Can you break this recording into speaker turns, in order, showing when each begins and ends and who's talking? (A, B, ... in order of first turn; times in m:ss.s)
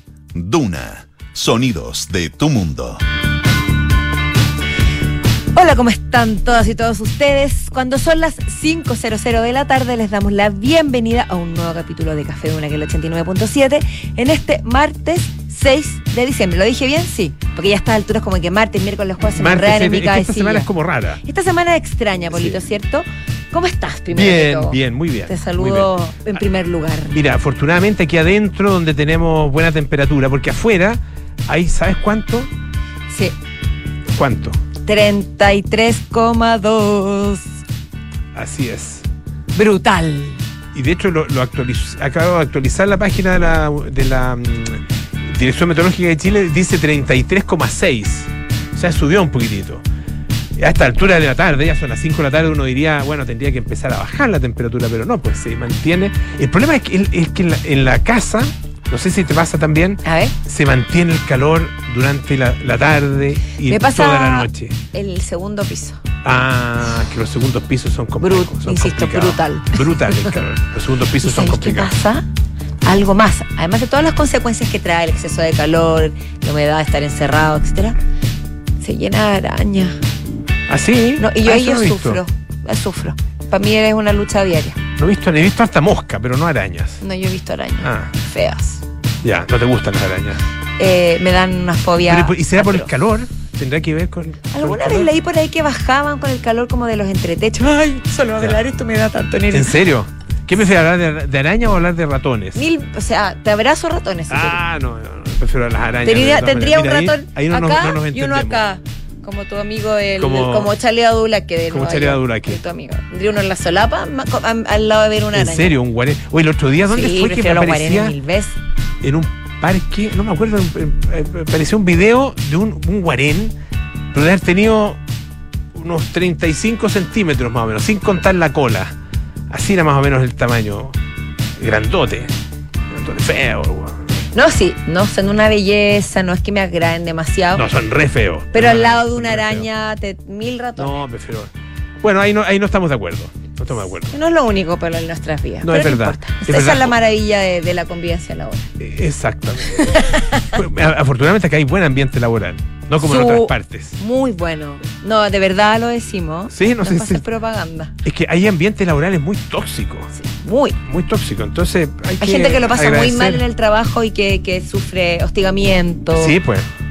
0:00.3-0:03.0 A
0:05.5-0:20.7 B
0:19.3-0:21.2 C
0:21.2-0:27.2 B
0:22.3-0:22.6 C
0:24.1-0:25.9 C
0:27.1-0:32.5 C
0:34.1-0:34.6 C
0:34.8-0:37.5 B
0:38.3-0:39.1 C
0:39.5-0:40.4 B
0:40.7-0:49.8 C
0:50.6-1:04.8 C
1:00.0-1:00.3 B
1:03.7-1:06.0 B
1:06.2-1:11.9 C
1:08.2-1:10.4 B
1:11.2-1:12.2 B
1:12.8-1:18.0 B
1:18.8-1:20.0 B
1:20.7-1:22.2 C
1:21.2-1:24.8 B
1:25.0-1:27.0 C
1:27.0-1:28.8 B
1:27.8-1:28.1 C
1:29.2-1:30.4 C
1:30.8-1:32.9 B
1:32.1-1:35.1 C
1:34.5-1:39.8 B
1:39.5-1:42.6 C
1:42.5-1:44.6 B
1:44.3-1:48.6 C
1:46.0-1:55.7 B
1:50.2-1:50.7 C
1:51.7-1:52.6 C
1:55.3-1:58.1 C
1:56.9-1:58.5 B
1:59.0-2:03.5 C
2:04.1-2:05.0 C
2:05.7-2:09.0 C
2:09.5-2:11.0 C
2:11.6-2:12.3 C
2:12.9-2:14.0 C
2:14.3-2:17.6 B
2:17.5-2:19.6 C
2:18.5-2:21.0 B
2:20.8-2:24.1 C
2:24.1-2:28.7 B
2:25.6-2:26.9 C
2:28.8-2:34.0 C
2:29.7-2:30.4 B
2:33.0-2:37.9 B
2:36.5-2:37.2 C
2:38.0-2:40.1 C
2:40.2-2:40.8 B
2:40.8-2:43.4 C
2:42.2-2:46.4 B
2:46.2-2:46.7 C